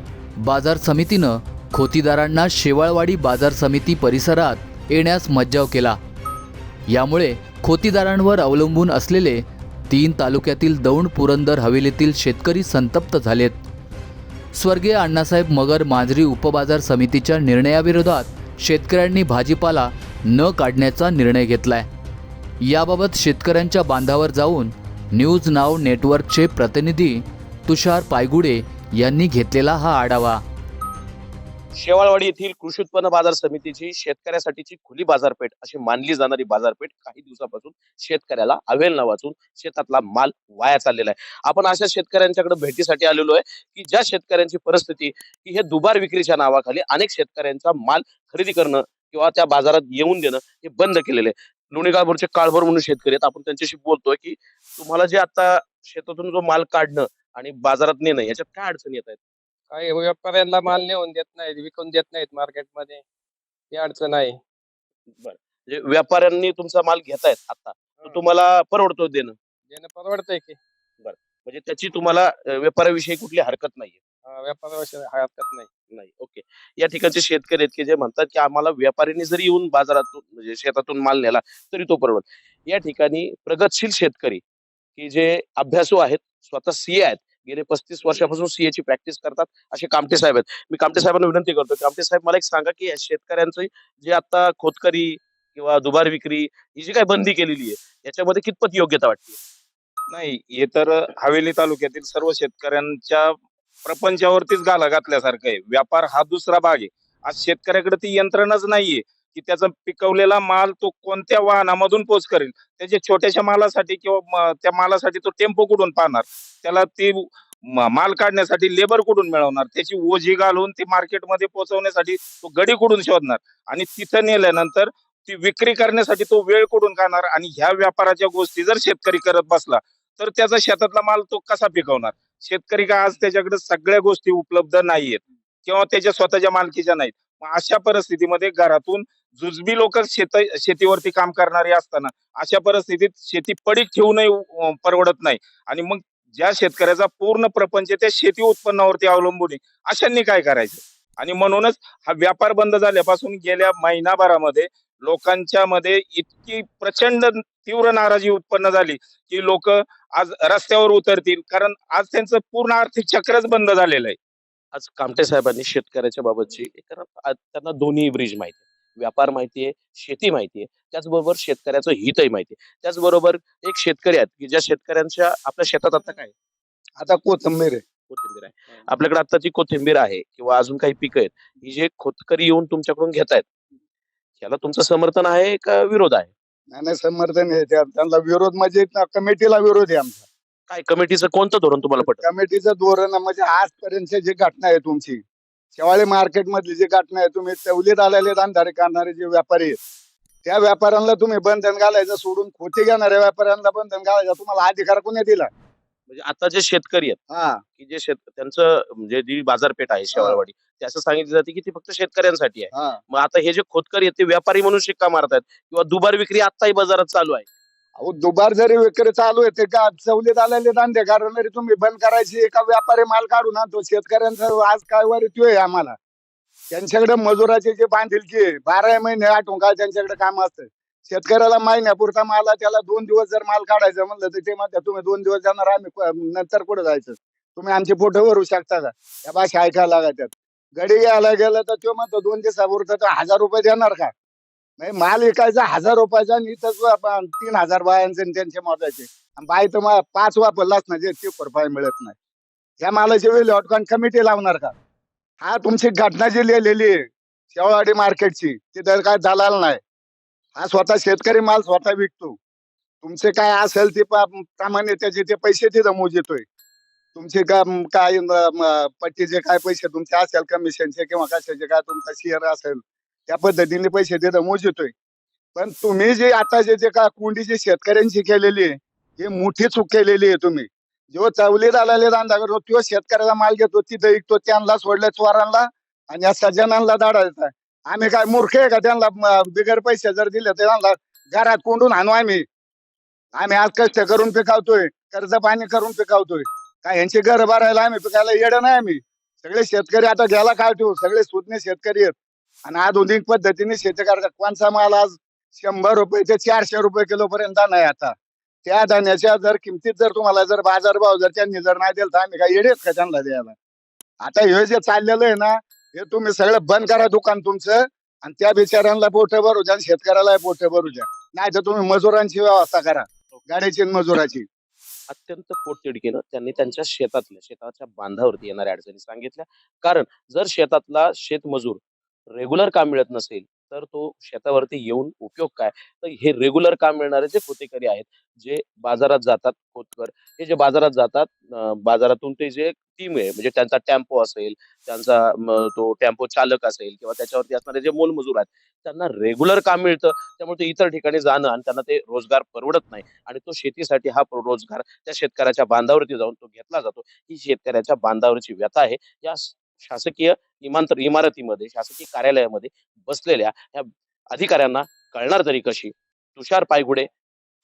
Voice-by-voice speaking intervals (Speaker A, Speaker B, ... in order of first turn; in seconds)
Speaker A: 0.4-6.0, 6.9-13.6, 14.5-21.9, 22.6-30.4
Speaker B: 31.8-59.2, 65.2-69.4, 71.0-74.0, 75.9-84.4, 85.0-99.4, 164.7-176.3, 178.1-183.5, 184.4-186.3, 190.7-192.2, 206.1-207.2, 207.8-217.5, 325.1-331.8, 332.3-367.1
Speaker C: 59.7-63.0, 63.7-64.4, 68.0-68.3, 69.7-70.6, 74.2-75.7
Speaker D: 100.1-164.2
Speaker E: 177.0-177.8, 186.7-190.2, 192.0-195.2, 195.8-199.8, 200.4-205.5, 207.3-207.6, 210.1-210.4, 212.7-213.0, 218.0-226.0, 226.7-244.1, 244.8-252.2, 252.8-254.8, 255.4-259.8, 260.6-262.4, 263.0-266.4, 267.1-274.9, 275.6-292.4, 293.4-313.6, 314.2-324.4